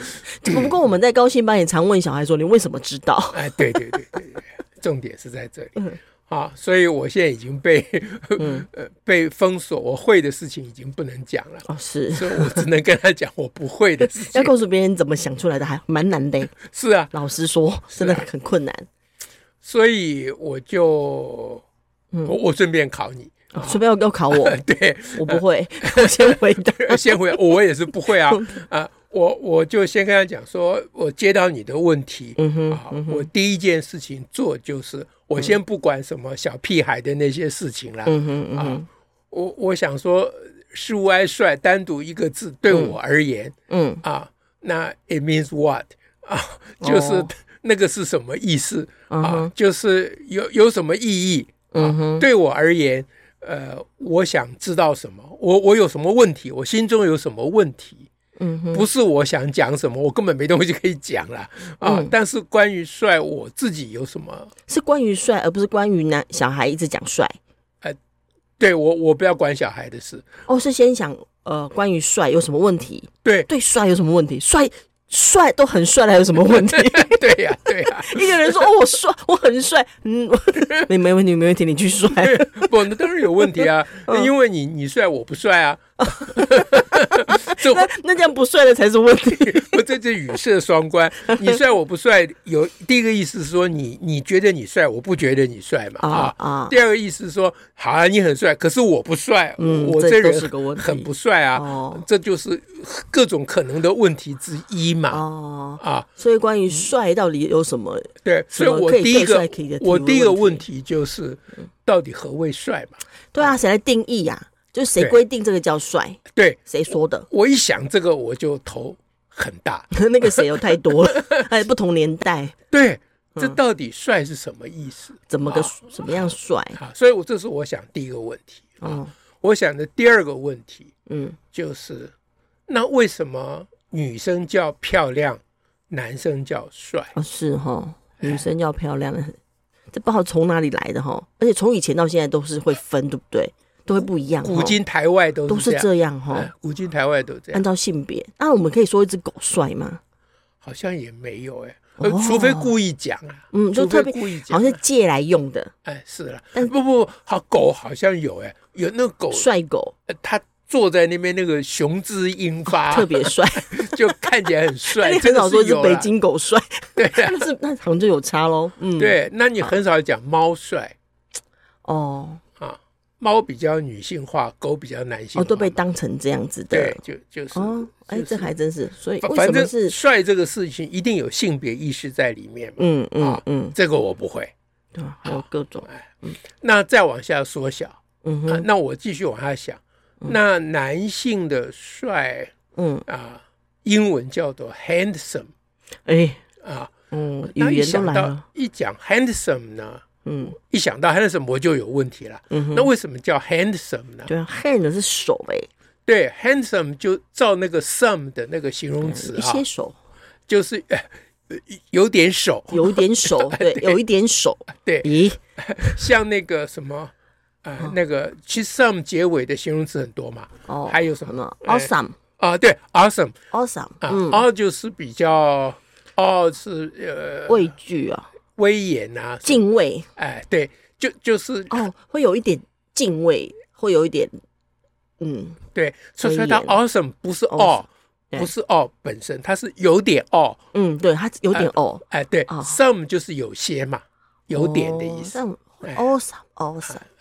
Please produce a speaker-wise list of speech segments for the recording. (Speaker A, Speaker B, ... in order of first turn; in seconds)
Speaker A: 0.3-4.0, 8.4-8.7, 11.7-12.7, 14.1-16.6, 17.1-18.9, 23.5-24.6, 25.1-27.4, 28.3-28.6, 32.4-33.3, 38.1-38.9, 42.7-43.0, 43.7-44.0, 46.8-47.3, 49.1-49.5, 51.7-52.3, 58.4-58.9, 61.8-62.1, 64.7-67.4, 70.5-82.7, 83.3-84.3, 86.0-89.9, 96.0-96.8, 99.6-102.0, 105.1-110.6, 113.3-117.3, 119.9-122.6, 125.3-126.8, 128.8-129.1, 131.1-131.4, 137.2-139.4, 139.9-144.8, 145.5-146.5, 147.5-150.0, 152.0-152.7, 153.5-155.7, 159.3-159.9, 162.7-169.7, 171.8-172.4, 175.4-177.0, 177.5-180.0, 182.8-183.8, 184.9-186.4, 188.2-188.7, 192.8-193.1, 196.1-196.4, 197.1-198.4, 200.2-200.6, 202.5-202.9, 204.3-205.7, 209.0-210.0, 212.7-216.1, 220.7-222.2, 223.5-224.4, 227.5-228.3, 229.4-230.1, 231.7-234.4, 235.2-235.6, 236.2-236.8, 237.5-237.8, 240.7-242.8, 244.5-247.0
Speaker B: 0.5-0.7, 3.3-14.5, 16.6-17.1, 17.9-18.2, 19.6-21.6, 22.3-23.8, 24.3-58.1, 58.7-64.5, 68.6-70.2, 73.2-73.5, 76.6-78.7, 80.6-80.9, 82.2-87.9, 89.3-105.2, 105.8-106.1, 108.2-113.5, 116.3-116.6, 117.3-121.3, 122.7-130.9, 131.5-132.1, 132.7-137.1, 144.0-147.6, 150.6-154.8, 155.8-159.5, 160.1-166.1, 167.0-167.5, 169.0-171.0, 172.6-175.8, 176.7-178.5, 179.2-184.5, 185.2-192.5, 193.1-195.5, 196.6-196.9, 197.5-204.3, 206.1-209.7, 210.5-214.0, 214.7-217.1, 217.6-223.4, 224.0-227.7, 228.6-229.6, 230.2-231.9, 235.7-240.6, 241.5-246.0